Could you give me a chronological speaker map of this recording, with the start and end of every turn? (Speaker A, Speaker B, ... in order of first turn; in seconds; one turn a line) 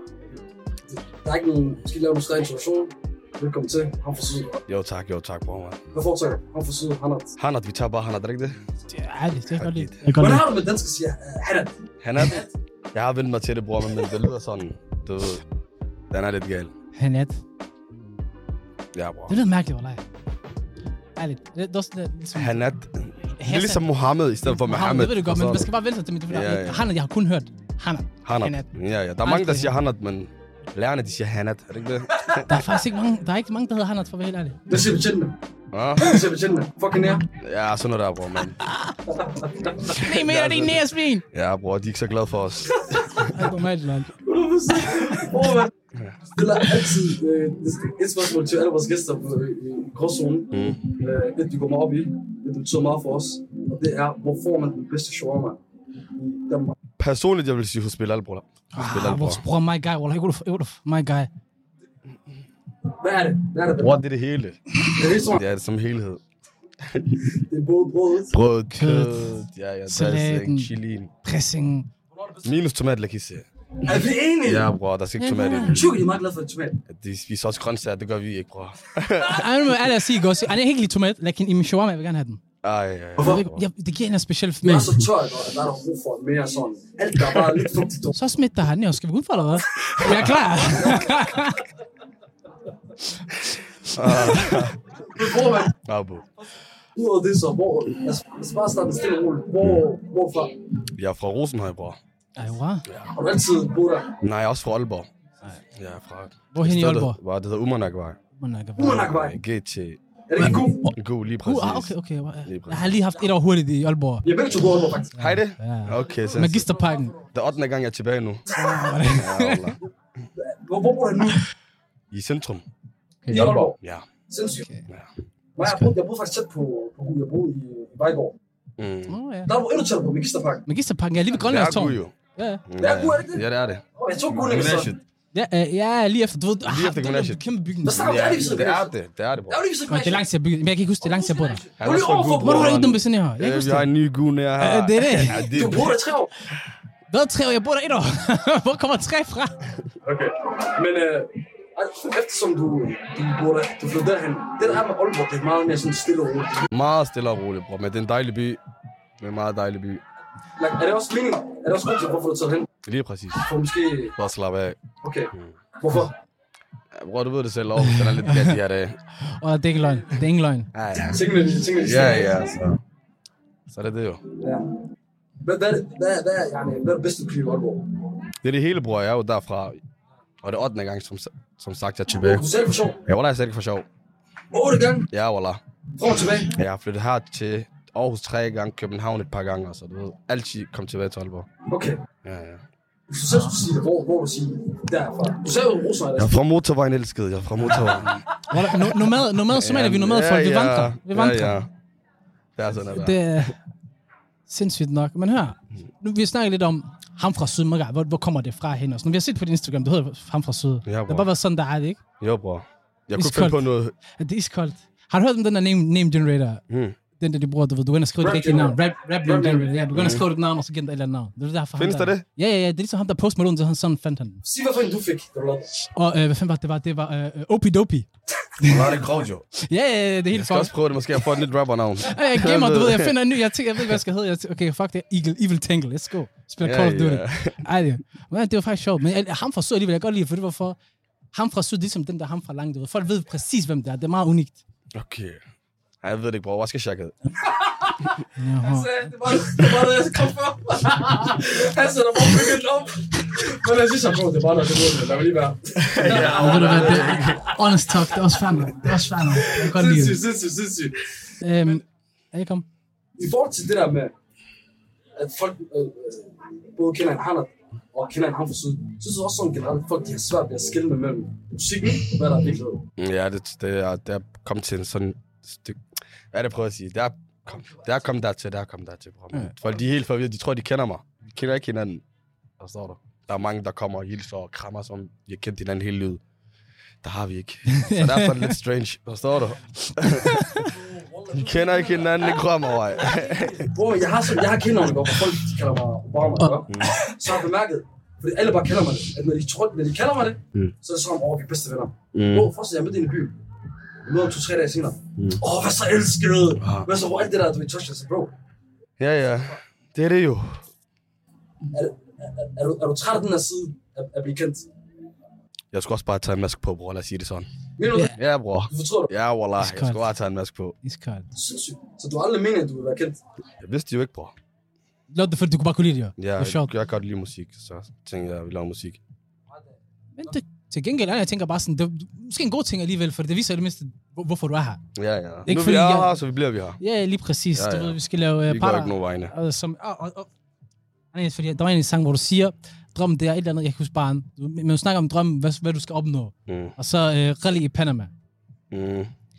Speaker A: 0.9-4.6
Speaker B: 4.7-5.8
Speaker A: 5.9-7.4
Speaker B: 7.4-8.6
Speaker C: 8.9-10.5
Speaker B: 9.5-10.1
Speaker A: 10.2-12.5
Speaker B: 12.0-15.4
Speaker B: 16.1-16.7
Speaker C: 16.9-17.4
Speaker B: 18.9-19.4
Speaker C: 19.3-20.0
Speaker C: 21.2-22.6
Speaker B: 22.4-25.7
Speaker C: 23.4-23.9
Speaker C: 24.5-28.7
Speaker B: 26.3-26.9
Speaker B: 28.2-32.5
Speaker C: 29.2-29.7
Speaker C: 32.5-34.6
Speaker A: 34.7-35.4
Speaker B: 35.7-36.2
Speaker A: 36.0-37.3
Speaker B: 37.3-38.7
Speaker C: 38.6-39.0
Speaker A: 39.1-40.0
Speaker C: 39.9-41.2
Speaker B: 40.1-43.3
Speaker C: 43.2-44.1
Speaker A: 44.2-45.7
Speaker B: 45.9-46.3
Speaker A: 46.3-55.6
Speaker B: 50.5-50.9
Speaker A: 56.1-56.7
Speaker B: 57.0-59.4
Speaker C: 58.7-61.3
Speaker A: 63.0-64.0
Speaker B: 63.8-66.2
Speaker A: 64.8-65.4
Speaker B: 66.9-67.1
Speaker A: 67.2-68.3
Speaker B: 68.3-71.1
Speaker C: 68.7-71.9
Speaker A: 72.1-72.6
Speaker B: 72.4-73.5
Speaker A: 73.8-74.7
Speaker B: 74.5-75.9
Speaker C: 75.2-75.8
Speaker A: 75.6-76.8
Speaker B: 76.9-79.9
Speaker C: 79.2-82.4
Speaker B: 82.6-83.6
Speaker C: 83.2-85.1
Speaker A: 84.6-88.1
Speaker C: 88.1-91.6
Speaker C: 93.9-94.6
Speaker B: 93.9-94.8
Speaker A: 95.0-95.7
Speaker B: 95.7-96.3
Speaker A: 97.0-100.7
Speaker B: 101.0-102.0
Speaker C: 102.4-102.8
Speaker B: 102.9-103.1
Speaker A: 103.1-104.2
Speaker B: 104.2-105.1
Speaker B: 105.7-108.2
Speaker C: 106.5-107.2
Speaker C: 108.4-109.1
Speaker A: 108.8-109.4
Speaker B: 108.8-113.0
Speaker A: 110.3-110.9
Speaker C: 110.4-114.3
Speaker A: 114.2-115.1
Speaker C: 115.1-117.2
Speaker B: 115.2-116.7
Speaker A: 116.0-117.3
Speaker B: 117.3-118.5
Speaker C: 118.5-119.8
Speaker B: 119.1-119.8
Speaker A: 120.4-121.4
Speaker B: 122.1-122.7
Speaker C: 123.2-123.6
Speaker A: 123.3-123.8
Speaker B: 123.3-124.1
Speaker A: 124.3-124.7
Speaker C: 124.6-124.9
Speaker A: 125.6-128.3
Speaker C: 125.6-125.9
Speaker B: 128.8-129.2
Speaker C: 129.1-129.5
Speaker A: 129.5-130.7
Speaker C: 130.7-132.6
Speaker B: 131.3-132.2
Speaker B: 132.7-135.0
Speaker A: 132.8-134.9
Speaker C: 135.3-138.0
Speaker B: 136.6-139.6
Speaker A: 137.8-138.9
Speaker A: 139.5-140.2
Speaker C: 139.9-141.6
Speaker A: 141.0-142.9
Speaker B: 141.8-145.9
Speaker C: 142.4-143.9
Speaker C: 144.6-145.9
Speaker A: 145.4-146.3
Speaker C: 147.1-149.7
Speaker A: 150.0-156.7
Speaker B: 156.7-158.6
Speaker B: 159.2-160.0
Speaker A: 160.6-162.7
Speaker B: 162.8-163.5
Speaker A: 163.4-164.2
Speaker B: 164.2-165.6
Speaker A: 165.0-166.1
Speaker B: 166.9-169.0
Speaker C: 167.8-168.6
Speaker C: 169.2-170.7
Speaker B: 170.7-172.8
Speaker A: 171.0-172.4
Speaker B: 173.7-174.2
Speaker A: 174.4-174.7
Speaker A: 175.4-178.0
Speaker B: 178.4-179.8
Speaker B: 180.4-182.5
Speaker A: 182.2-183.0
Speaker B: 183.0-183.9
Speaker A: 184.5-185.1
Speaker B: 185.1-185.6
Speaker A: 186.0-186.5
Speaker B: 186.1-191.5
Speaker A: 191.7-192.0
Speaker B: 192.2-192.7
Speaker A: 193.1-196.4
Speaker C: 193.3-193.6
Speaker B: 196.2-198.2
Speaker C: 198.4-201.6
Speaker B: 199.5-201.7
Speaker B: 202.6-203.5
Speaker C: 202.9-203.6
Speaker C: 204.5-212.0
Speaker B: 210.9-211.3
Speaker B: 212.2-213.9
Speaker C: 213.2-213.6
Speaker C: 214.2-216.6
Speaker B: 216.7-217.0
Speaker C: 217.2-224.4
Speaker A: 218.2-219.8
Speaker B: 219.9-220.3
Speaker B: 221.8-222.2
Speaker A: 224.4-225.7
Speaker C: 225.8-228.1
Speaker C: 228.6-228.9
Speaker B: 228.6-229.4
Speaker C: 229.6-230.7
Speaker B: 230.3-233.2
Speaker C: 232.0-240.8
Speaker B: 236.6-237.6
Speaker C: 241.3-244.6
Speaker B: 244.9-245.4
Speaker B: 246.0-247.2
Speaker A: 247.5-248.1
Speaker C: 248.3-249.4
Speaker A: 248.6-257.5
Speaker B: 255.8-257.5
Speaker C: 256.0-260.2
Speaker A: 259.4-261.0
Speaker C: 261.4-262.6
Speaker A: 263.2-264.1
Speaker A: 265.2-272.8
Speaker B: 273.0-275.8
Speaker B: 276.3-282.0
Speaker A: 277.5-277.9
Speaker B: 282.6-286.2
Speaker B: 287.0-290.5
Speaker C: 287.7-288.6
Speaker C: 289.9-290.7
Speaker A: 290.6-303.4
Speaker B: 291.3-293.7
Speaker C: 296.4-297.1
Speaker B: 296.7-297.0
Speaker B: 302.1-302.5
Speaker A: 304.1-308.3
Speaker B: 306.6-306.9
Speaker B: 309.0-310.7
Speaker A: 311.7-314.7
Speaker B: 315.7-317.5
Speaker A: 317.8-319.1
Speaker B: 318.0-320.8
Speaker C: 319.6-320.1
Speaker C: 320.8-321.3
Speaker A: 321.3-323.2
Speaker B: 323.6-324.4
Speaker C: 325.1-326.7
Speaker B: 326.2-329.0
Speaker C: 330.2-334.8
Speaker B: 334.9-336.8
Speaker C: 335.5-336.2
Speaker C: 336.8-340.3
Speaker B: 337.5-339.3
Speaker C: 341.1-348.1
Speaker B: 346.5-346.8
Speaker B: 348.7-349.1